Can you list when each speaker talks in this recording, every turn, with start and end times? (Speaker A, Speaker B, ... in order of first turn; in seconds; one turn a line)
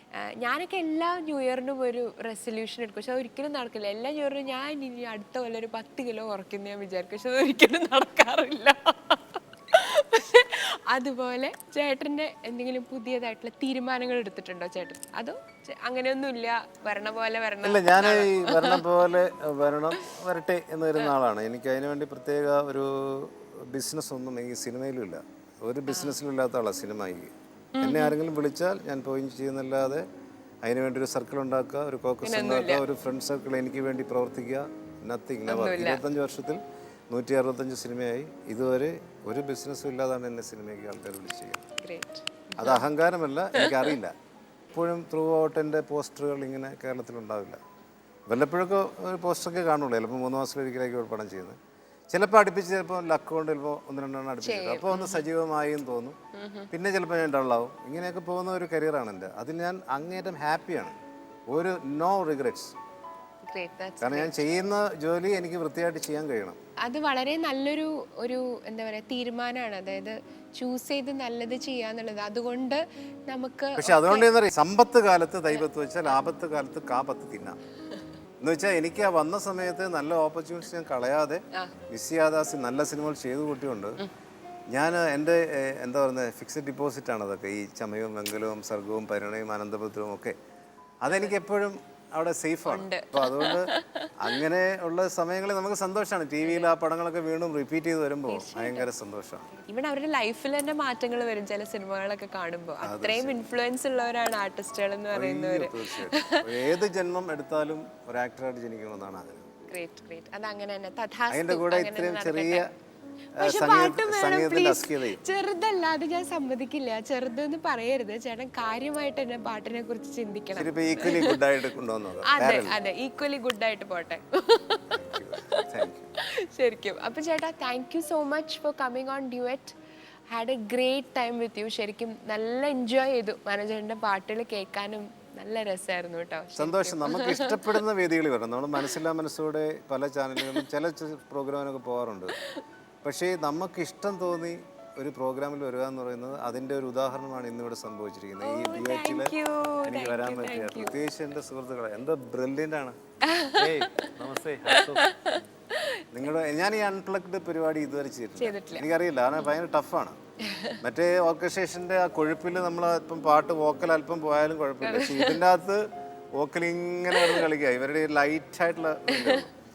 Speaker A: 0.2-18.9
Speaker B: 17.6-30.0
Speaker A: 25.9-26.2
Speaker A: 27.8-28.1
Speaker B: 30.6-41.6
Speaker A: 32.2-32.8
Speaker A: 35.5-36.0
Speaker A: 41.8-42.9
Speaker B: 42.6-44.1
Speaker A: 43.5-43.9
Speaker B: 44.7-47.6
Speaker B: 48.3-51.6
Speaker B: 52.1-56.1
Speaker A: 54.4-55.2
Speaker A: 56.3-56.7
Speaker B: 56.7-61.0
Speaker B: 61.5-62.7
Speaker A: 63.4-64.5
Speaker B: 64.0-66.6
Speaker A: 66.8-74.3
Speaker B: 73.8-77.6
Speaker A: 75.5-76.2
Speaker B: 78.4-84.0
Speaker B: 84.7-90.3
Speaker B: 91.0-99.5
Speaker A: 92.7-94.4
Speaker A: 96.4-96.7
Speaker A: 98.3-98.9
Speaker A: 99.5-106.7
Speaker B: 102.8-103.4
Speaker B: 105.1-109.5
Speaker A: 109.7-112.7
Speaker B: 111.3-112.7
Speaker B: 113.3-115.2
Speaker A: 113.4-121.4
Speaker B: 120.5-122.8
Speaker A: 122.2-129.8
Speaker B: 124.9-126.1
Speaker A: 130.3-137.8
Speaker B: 136.6-142.4
Speaker B: 143.0-152.9
Speaker A: 148.4-150.9
Speaker A: 153.2-154.1
Speaker B: 153.5-155.4
Speaker A: 154.7-156.0
Speaker B: 156.1-160.2
Speaker A: 158.4-158.8
Speaker A: 160.4-160.8
Speaker B: 160.8-165.8
Speaker A: 164.8-165.4
Speaker B: 166.3-169.5
Speaker A: 167.1-167.5
Speaker A: 169.1-169.4